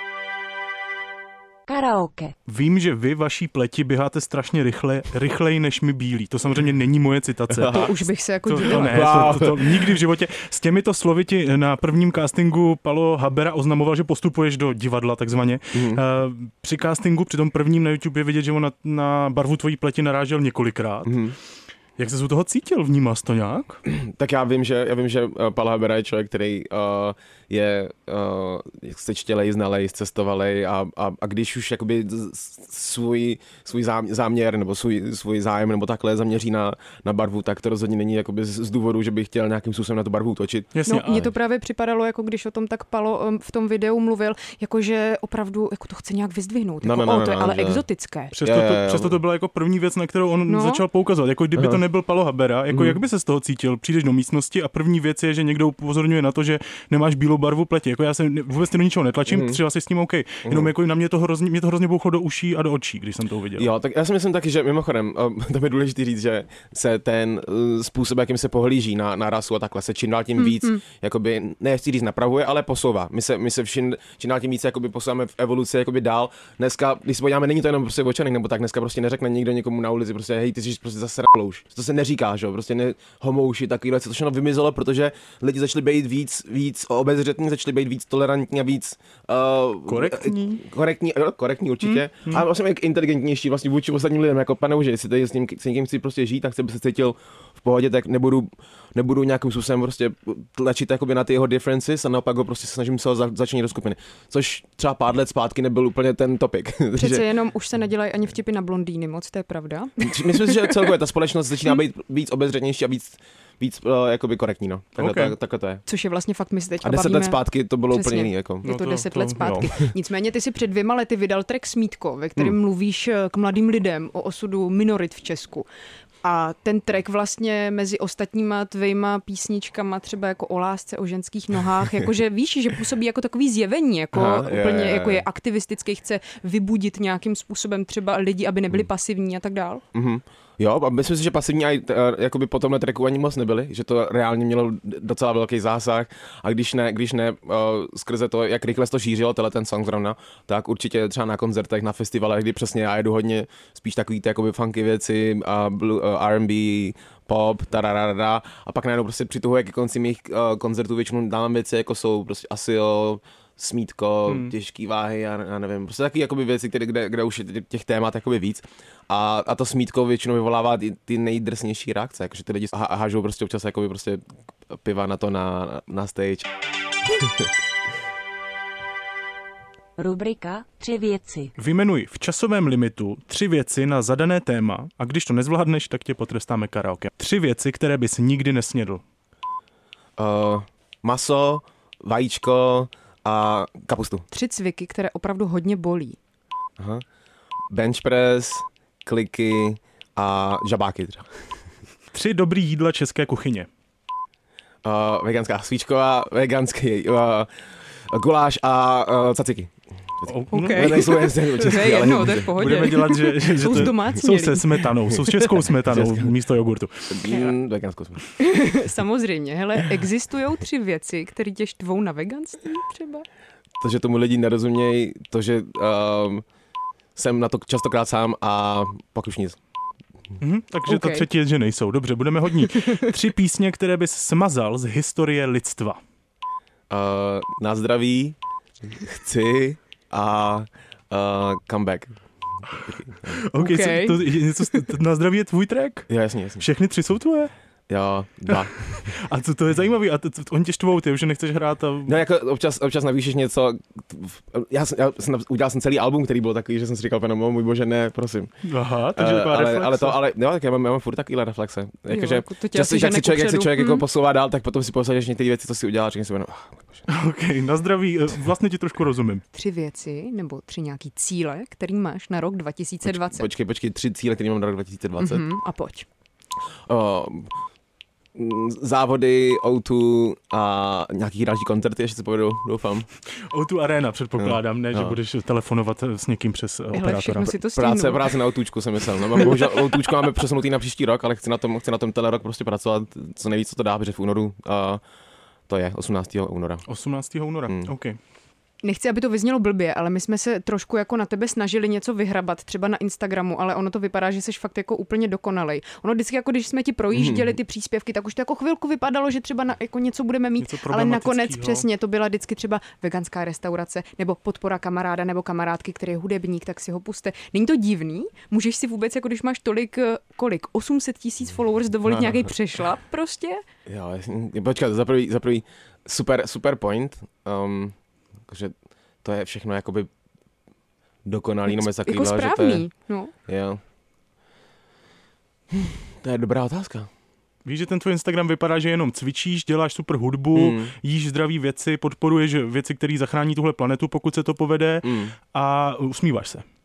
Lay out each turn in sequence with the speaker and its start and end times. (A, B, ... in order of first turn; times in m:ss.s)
0:01.7-0:02.3 A
0:02.5-0:07.9 B
0:07.5-0:07.9 C
0:07.7-0:09.4 D
0:08.4-0:21.2 B
0:08.6-0:09.8 C
0:15.7-0:16.0 C
0:21.0-0:21.4 C
0:22.0-0:23.8 B
0:23.8-0:41.3 C
0:40.7-0:41.1 B
0:40.8-0:48.3 D
0:46.8-0:47.8 C
0:48.3-1:03.7 B
0:48.4-0:49.2 C
0:50.5-0:50.8 D
0:51.5-0:51.8 C
0:52.7-0:53.0 C
0:59.3-0:59.6 C
1:00.4-1:00.7 C
1:03.6-1:47.3 C
1:10.4-1:10.8 D
1:29.8-1:30.6 B
1:31.8-1:32.4 B
1:46.9-1:50.8 D
1:50.0-1:55.8 C
1:55.0-1:55.3 B
1:55.8-2:05.7 D
1:56.8-1:58.6 C
1:58.6-1:59.7 B
2:06.2-2:19.8 D
2:14.1-2:15.2 C
2:19.9-2:56.5 C
2:44.3-2:44.5 B
2:57.1-2:57.5 C
3:00.0-3:01.5 A
3:01.6-3:09.0 B
3:10.2-3:14.2 C
3:14.3-3:16.2 D
3:17.7-3:21.3 C
3:22.1-3:23.7 B
3:24.8-3:27.5 C
3:28.1-3:32.9 C
3:30.3-3:37.2 B
3:30.5-3:34.8 D
3:35.8-3:36.4 C
3:37.1-3:38.2 C
3:37.3-3:37.5 D
3:38.4-3:43.2 D
3:43.8-3:46.4 C
3:47.2-3:49.6 C
3:50.4-3:56.0 B
3:50.9-3:51.3 D
3:52.7-3:53.0 D
3:56.9-3:58.4 C
3:58.9-4:02.1 C
4:02.8-4:03.4 C
4:03.2-4:07.5 B
4:03.6-4:04.2 D
4:06.1-4:06.6 C
4:07.9-4:09.1 C
4:08.5-4:12.1 B
4:12.0-4:18.5 C
4:18.6-4:20.2 B
4:19.1-4:27.0 C
4:22.1-4:24.0 D
4:27.1-4:29.4 B
4:29.5-4:33.5 D
4:33.0-4:35.5 C
4:35.2-4:36.0 D
4:36.9-4:37.5 C
4:38.3-4:43.1 C
4:43.4-4:47.5 B
4:44.4-4:45.2 C
4:46.9-4:48.4 D
4:47.5-4:55.0 C
4:55.7-4:56.8 C
4:56.8-4:58.2 B
4:57.7-4:57.9 C
4:58.8-5:23.6 D
5:07.1-5:07.5 C
5:10.6-5:11.9 B
5:22.1-5:22.5 C
5:23.9-5:27.9 C
5:28.5-5:30.1 C
5:31.3-5:32.9 C
5:31.6-5:33.3 D
5:33.4-5:33.8 C
5:35.7-5:37.1 C
5:37.6-5:46.6 B
5:40.5-5:40.9 C
5:45.0-5:45.4 C